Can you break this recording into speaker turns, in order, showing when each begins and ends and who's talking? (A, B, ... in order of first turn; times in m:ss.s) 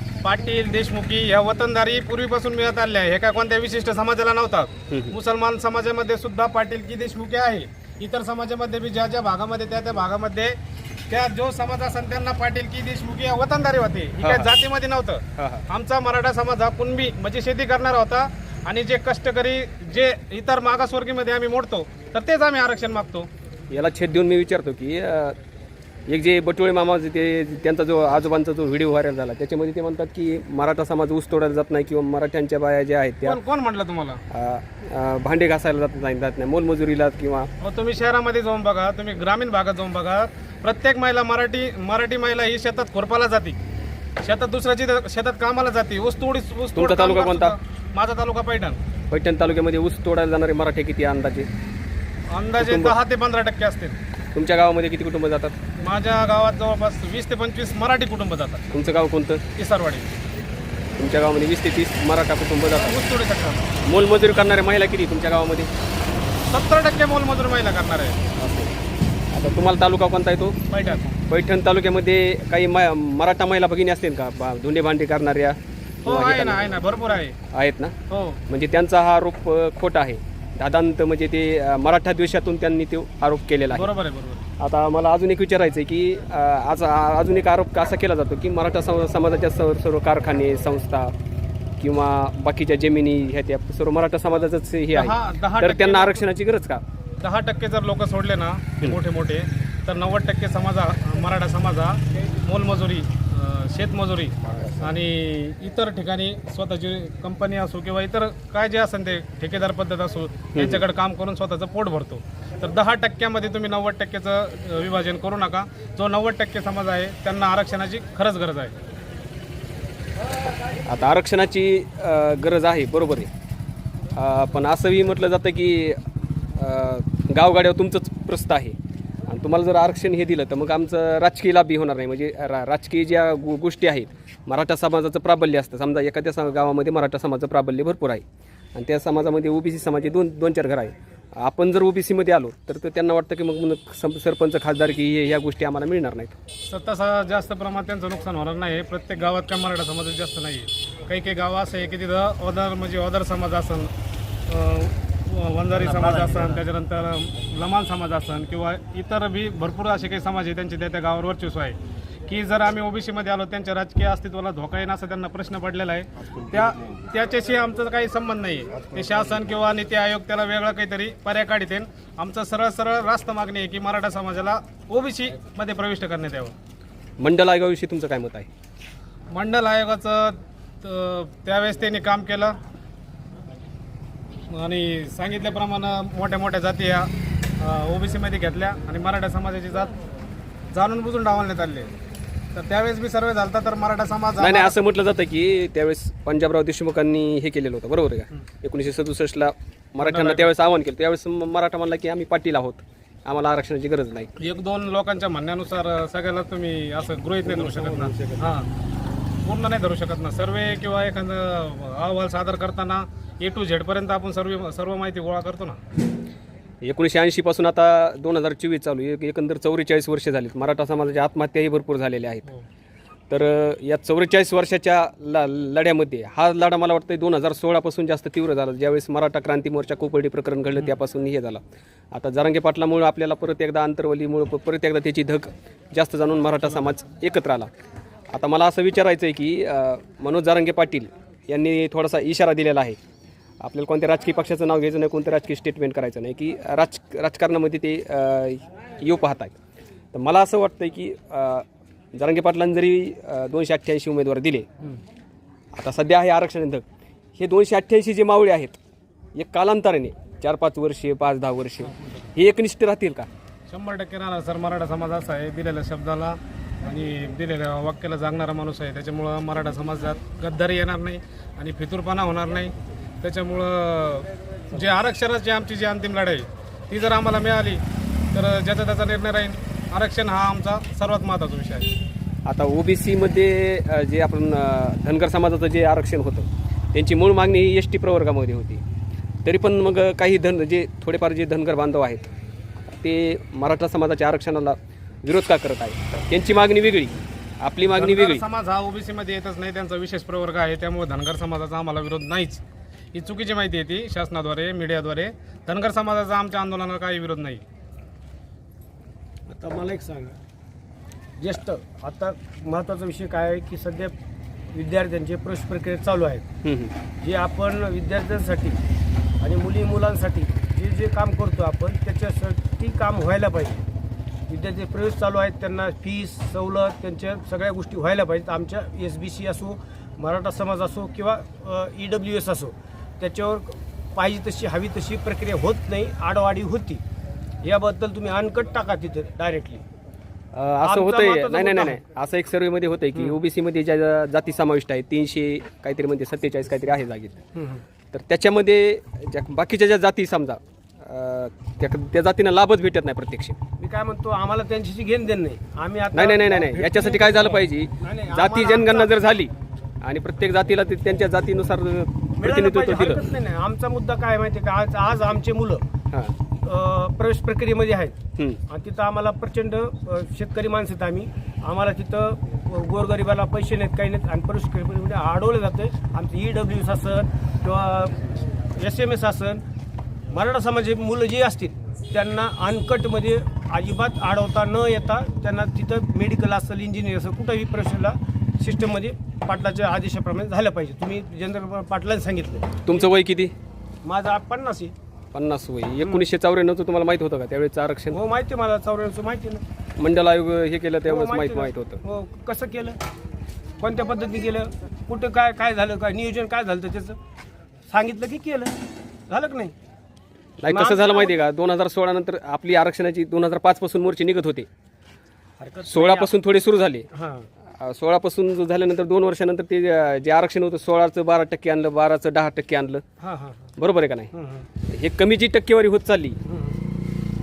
0:00.2-0:10.6 A
0:04.9-0:05.2 B
0:11.1-0:23.3 A
0:14.2-0:14.5 B
0:15.4-0:15.6 B
0:23.7-0:25.4 B
0:26.1-0:33.4 B
0:33.2-0:34.2 A
0:34.3-0:37.5 B
0:37.6-0:43.6 A
0:44.2-0:48.8 A
0:46.8-0:47.6 B
0:49.1-0:51.5 B
0:52.3-0:54.0 A
0:52.6-0:52.9 B
0:54.3-0:55.6 B
0:55.8-0:58.7 A
0:58.7-0:59.4 B
0:59.6-1:00.1 A
1:01.0-1:03.0 B
1:02.8-1:03.7 A
1:03.8-1:05.7 B
1:06.4-1:08.2 A
1:08.4-1:08.7 B
1:09.3-1:10.6 B
1:10.7-1:11.1 A
1:11.3-1:16.8 B
1:16.0-1:17.4 A
1:17.5-1:17.9 B
1:18.1-1:18.4 A
1:18.5-1:23.9 B
1:23.7-1:24.4 A
1:24.6-1:31.1 B
1:31.8-1:36.8 B
1:34.9-1:36.3 A
1:37.2-1:58.7 A
1:50.6-1:50.8 B
2:00.8-2:03.3 B
2:04.2-2:06.0 B
2:06.6-2:08.8 B
2:09.3-2:18.2 B
2:18.7-2:26.3 B
2:26.6-2:33.9 A
2:34.5-2:56.5 A
2:35.8-2:36.6 C
2:57.2-2:58.5 B
2:59.3-3:02.6 A
3:04.5-3:09.9 A
3:10.7-3:11.9 A
3:12.5-3:14.8 A
3:14.4-3:24.3 B
3:20.0-3:20.5 A
3:24.4-3:28.7 A
3:27.4-3:28.5 C
3:29.4-3:35.8 A
3:36.8-3:42.5 B
3:43.3-3:51.6 B
3:52.1-3:57.7 B
3:58.3-4:03.0 B
4:03.6-4:09.5 B
4:10.1-4:14.6 B
4:15.7-4:16.8 B
4:17.3-4:18.8 B
4:19.3-4:23.3 B
4:23.7-4:37.8 A
4:38.3-4:41.9 A
4:42.4-4:48.8 B
4:49.4-4:52.2 B
4:52.8-4:58.4 B
4:57.8-5:02.6 A
5:03.1-5:07.6 A
5:09.5-5:10.4 C
5:11.4-5:14.1 C
5:14.7-5:16.4 C
5:16.6-5:16.9 B
5:17.2-5:18.8 C
5:19.4-5:23.8 C
5:24.5-5:37.0 C
5:37.6-5:39.8 C
5:40.5-5:47.4 B
5:40.8-5:42.0 C
5:47.5-5:47.8 C
5:48.1-5:53.6 B
5:53.8-5:59.1 C
5:56.1-5:59.5 B
6:00.0-6:03.4 B
6:02.4-6:05.8 C
6:06.6-6:08.2 C
6:08.7-6:19.6 C
6:20.3-6:33.0 C
6:32.8-6:33.5 B
6:34.0-6:34.9 C
6:35.3-6:38.2 B
6:36.0-6:36.3 C
6:38.1-6:39.6 C
6:40.0-6:42.0 B
6:41.0-6:43.0 C
6:43.8-6:47.2 C
6:47.9-6:48.8 C
6:49.3-6:49.7 C
6:50.6-6:54.7 B
6:50.6-6:51.3 C
6:55.6-6:56.3 C
6:55.8-6:57.1 B
6:57.1-6:57.5 C
6:57.8-7:03.0 B
7:03.2-7:03.7 C
7:03.8-7:04.3 B
7:04.3-7:04.7 C
7:04.9-7:06.4 B
7:06.5-7:06.8 C